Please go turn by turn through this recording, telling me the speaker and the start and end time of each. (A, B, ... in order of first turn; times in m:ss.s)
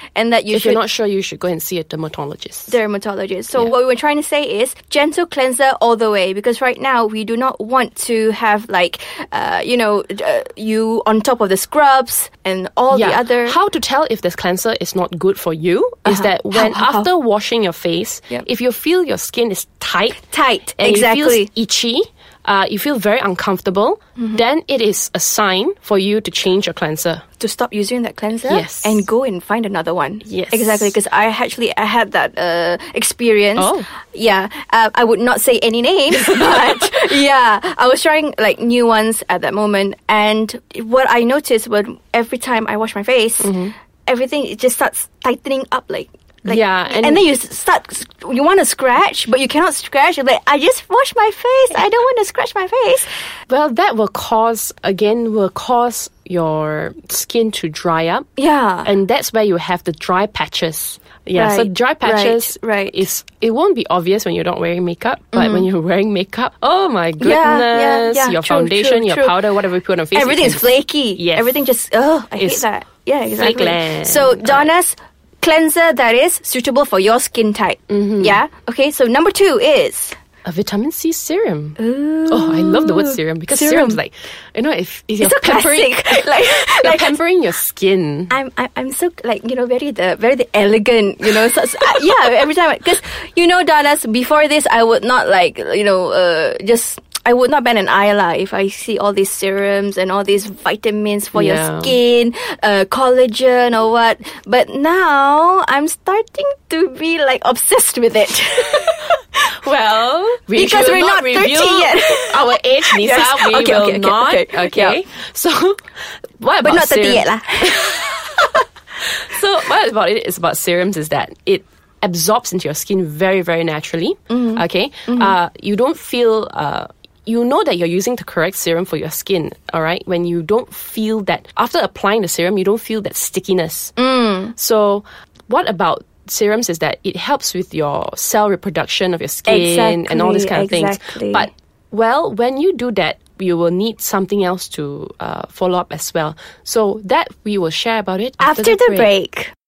0:00.2-0:00.8 A
0:00.5-0:02.8 B
0:02.7-0:13.6 A
0:12.9-0:20.2 B
0:16.1-0:17.1 A
0:20.2-0:21.5 A
0:20.8-0:27.2 B
0:27.4-0:53.1 A
0:28.5-0:29.0 B
0:30.2-0:30.9 B
0:33.6-0:33.9 B
0:36.1-0:37.0 B
0:43.4-0:43.7 B
0:46.4-0:47.3 B
0:53.5-0:58.3 B
0:58.4-0:58.9 A
0:58.8-1:11.6 B
1:01.4-1:03.0 A
1:05.3-1:05.7 A
1:07.2-1:09.5 A
1:10.1-1:20.2 A
1:12.4-1:12.6 B
1:13.3-1:14.7 B
1:17.9-1:18.4 B
1:20.4-1:28.4 B
1:21.8-1:24.0 A
1:25.2-1:27.2 A
1:28.3-1:49.5 A
1:41.3-1:42.0 B
1:49.6-1:55.9 B
1:50.5-1:55.0 A
1:56.4-1:58.2 B
1:56.6-1:58.4 A
1:59.2-2:13.9 B
2:04.3-2:05.4 A
2:14.0-2:14.6 A
2:14.6-2:29.1 B
2:19.5-2:21.5 A
2:28.4-2:29.5 A